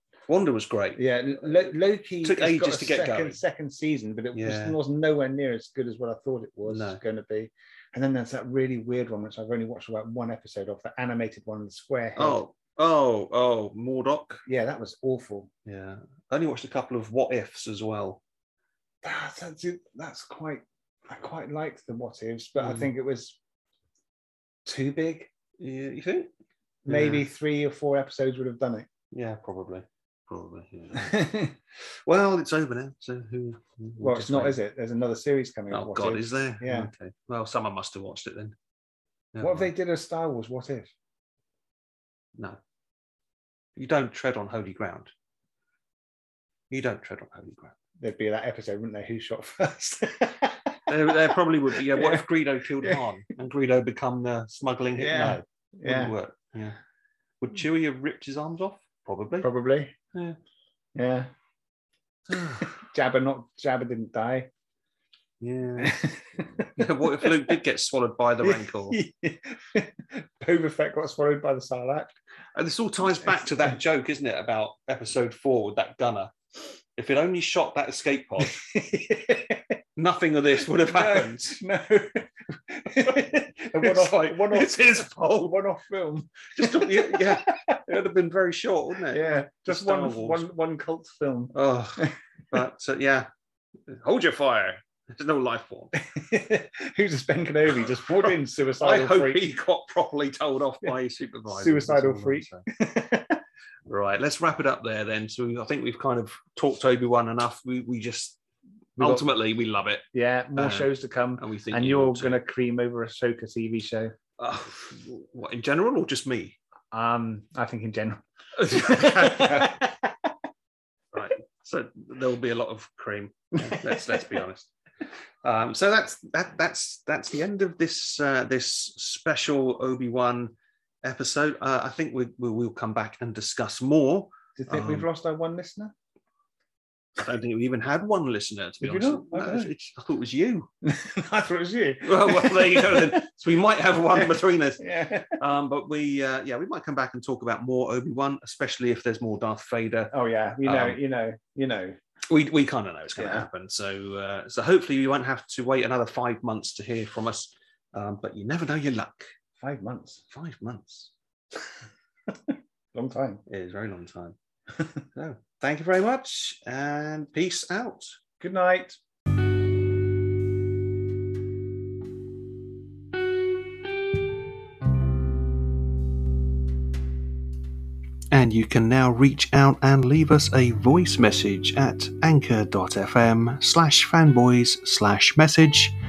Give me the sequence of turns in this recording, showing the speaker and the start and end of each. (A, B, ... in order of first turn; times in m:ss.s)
0:00.3-0:01.1 A
0:01.0-0:12.4 B
0:02.2-0:03.4 A
0:04.3-0:04.8 A
0:06.6-0:07.0 A
0:12.2-0:14.4 A
0:14.4-0:15.5 B
0:15.6-0:18.2 A
0:19.0-0:23.4 B
0:22.6-0:22.9 A
0:24.6-0:25.3 B
0:25.6-0:26.3 A
0:26.8-0:28.9 B
0:26.9-0:27.2 A
0:29.1-0:31.3 A
0:30.9-0:31.5 B
0:32.0-0:34.6 A
0:34.0-0:36.9 B
0:35.7-0:38.5 A
0:39.3-0:39.7 A
0:39.4-0:40.9 B
0:43.8-0:45.1 A
0:46.7-0:47.8 A
0:48.0-0:52.2 B
0:50.9-0:56.8 A
0:55.0-0:56.1 B
0:57.4-0:59.5 A
0:59.4-0:59.9 B
1:00.9-1:01.3 B
1:02.3-1:02.8 A
1:02.6-1:04.5 B
1:05.4-1:06.0 A
1:05.8-1:07.6 B
1:06.8-1:09.0 A
1:08.4-1:12.1 B
1:12.6-1:16.3 A
1:16.9-1:18.6 A
1:18.4-1:19.8 B
1:20.0-1:21.6 A
1:20.8-1:27.8 B
1:23.8-1:25.6 A
1:26.5-1:30.5 A
1:29.1-1:32.1 B
1:31.5-1:33.3 A
1:33.9-1:35.9 A
1:36.0-1:39.4 B
1:38.8-1:42.6 A
1:41.5-1:43.4 B
1:43.9-1:48.4 A
1:49.0-1:49.3 B
1:49.0-1:50.0 A
1:50.1-1:54.2 B
1:50.6-1:52.4 A
1:54.4-1:56.6 A
1:56.9-2:00.1 B
1:58.6-1:59.8 A
2:01.1-2:04.7 A
2:03.6-2:04.2 B
2:05.4-2:10.5 A
2:11.0-2:15.0 A
2:14.6-2:15.9 B
2:17.2-2:20.7 A
2:18.8-2:19.7 B
2:20.8-2:23.2 B
2:22.0-2:31.0 A
2:24.1-2:25.4 B
2:30.1-2:32.0 B
2:32.3-2:39.3 A
2:33.2-2:33.5 B
2:39.6-2:40.2 B
2:40.3-2:41.1 A
2:42.3-2:43.4 B
2:43.5-2:44.4 A
2:45.1-2:48.2 A
2:48.4-2:49.0 B
2:58.3-3:05.9 A